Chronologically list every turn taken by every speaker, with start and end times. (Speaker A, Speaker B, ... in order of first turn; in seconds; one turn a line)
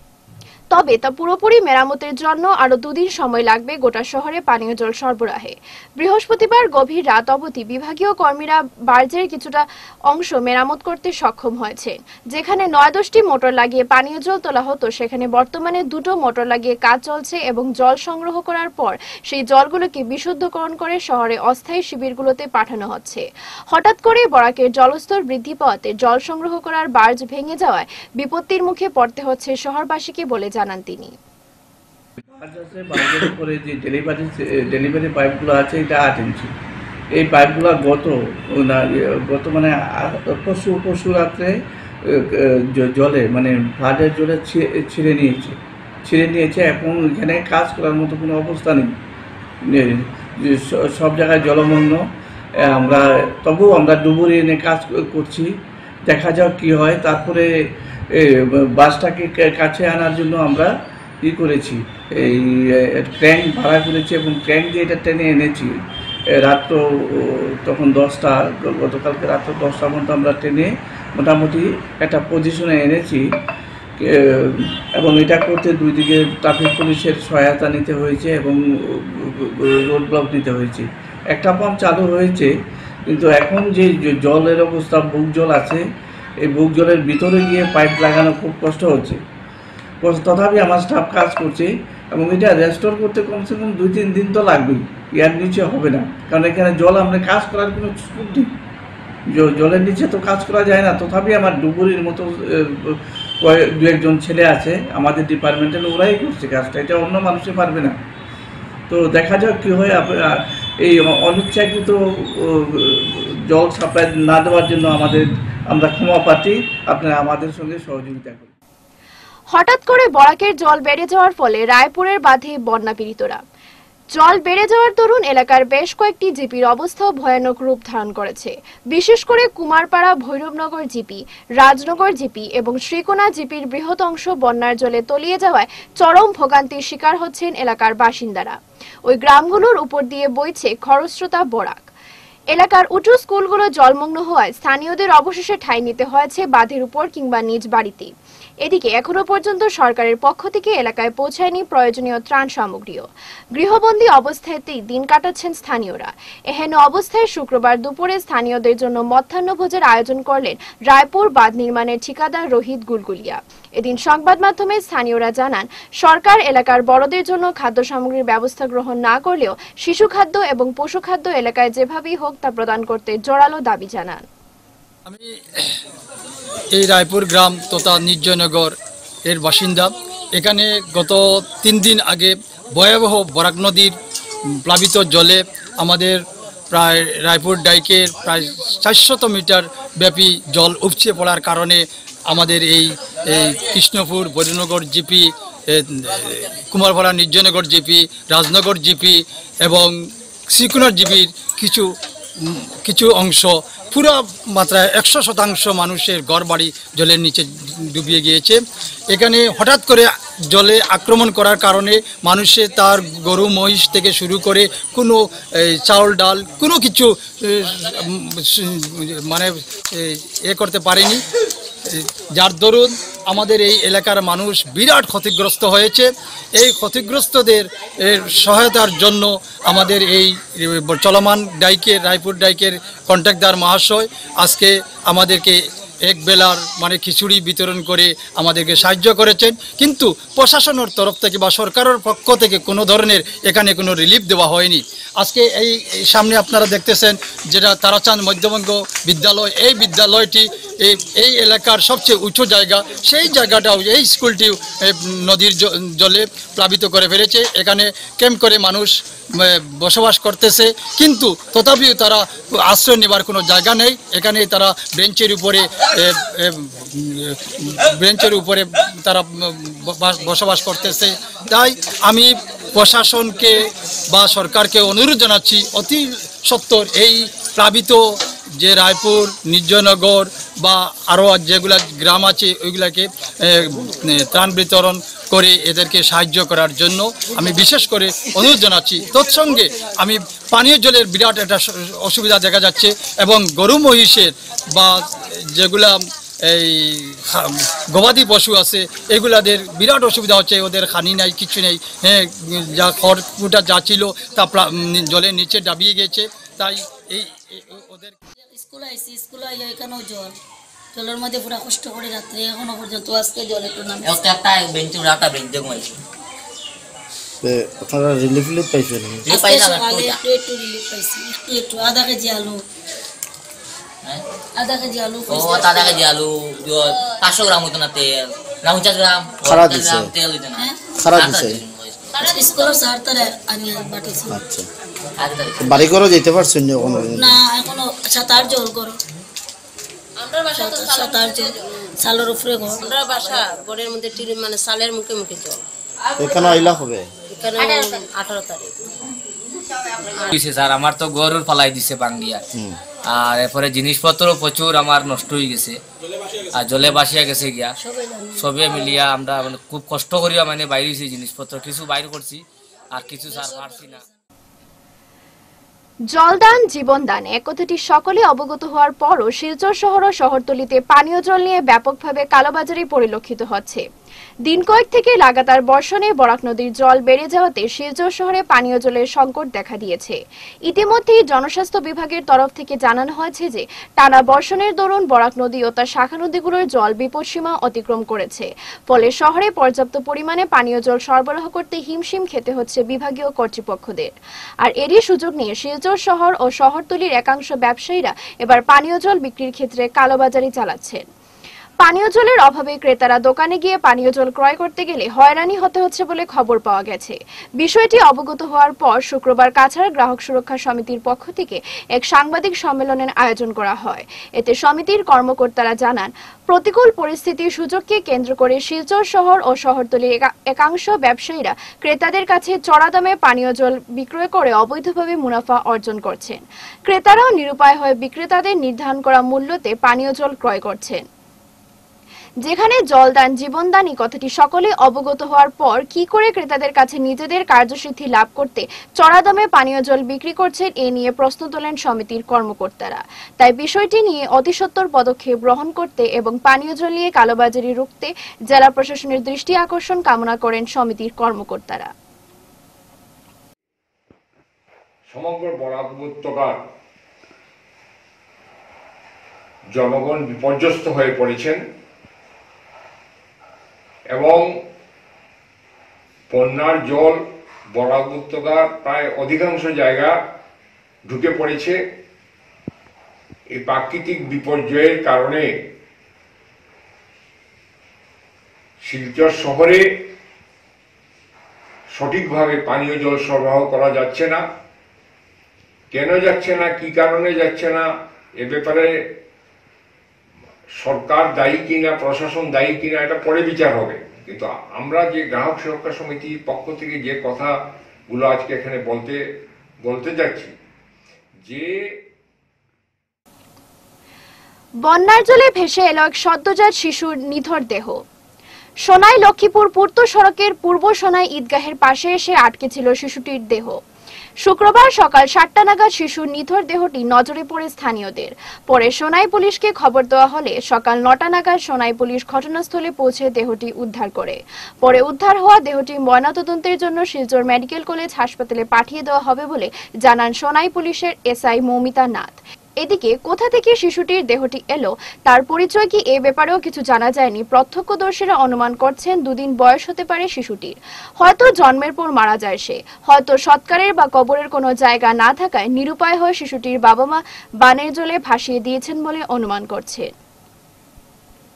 Speaker A: 0.7-31.1
Speaker B: 32.3-36.5
Speaker B: 37.1-41.5
Speaker B: 42.0-48.9
Speaker B: 49.6-52.0
Speaker B: 52.6-55.5
Speaker B: 56.1-57.5
Speaker B: 58.1-60.7
Speaker B: 61.2-65.7
Speaker B: 66.3-73.2
Speaker B: 74.0-82.5
Speaker B: 83.1-85.8
Speaker B: 86.4-89.2
Speaker B: 90.0-98.5
Speaker B: 99.3-108.0
Speaker B: 108.9-118.5
Speaker A: 119.5-123.4
Speaker A: 124.1-141.8
Speaker A: 142.5-148.1
Speaker A: 148.6-174.2
Speaker C: 175.1-175.8
Speaker C: 176.7-178.7
Speaker C: 179.3-183.9
Speaker C: 184.6-201.9
Speaker C: 202.4-208.6
Speaker C: 209.1-221.2
Speaker C: 221.8-308.1
Speaker D: 308.5-310.4
Speaker D: 310.9-314.1
Speaker E: 314.1-316.0
Speaker F: 317.4-319.2
Speaker E: 319.2-320.2
Speaker D: 319.3-322.6
Speaker D: 324.6-326.0
Speaker E: 325.3-332.2
Speaker F: 329.4-330.1
Speaker F: 331.0-331.6
Speaker G: 332.2-332.8
Speaker D: 332.2-334.3
Speaker F: 334.3-334.6
Speaker E: 335.2-335.9
Speaker F: 335.6-337.3
Speaker D: 337.2-339.0
Speaker G: 340.2-341.4
Speaker D: 340.6-341.5
Speaker D: 342.0-342.8
Speaker G: 342.8-345.6
Speaker F: 346.2-347.1
Speaker G: 347.3-348.7
Speaker H: 350.3-352.4
Speaker H: 353.1-355.8
Speaker H: 356.5-357.7
Speaker D: 357.9-358.2
Speaker H: 358.4-362.4
Speaker H: 362.9-364.0
Speaker A: 366.1-373.8
Speaker A: 374.4-401.0
Speaker A: 401.8-431.0
Speaker A: 432.4-451.9
Speaker I: 455.1-456.6
Speaker I: 459.7-461.6
Speaker I: 464.1-464.6
Speaker I: 466.3-470.2
Speaker I: 471.1-471.8
Speaker I: 473.5-475.5
Speaker I: 478.8-479.9
Speaker I: 481.9-484.4
Speaker I: 485.9-488.9
Speaker I: 490.8-497.5
Speaker I: 498.1-499.2
Speaker I: 499.8-500.5
Speaker I: 501.4-501.8
Speaker A: 504.8-508.0
Speaker A: 508.8-513.8
Speaker A: 514.4-550.1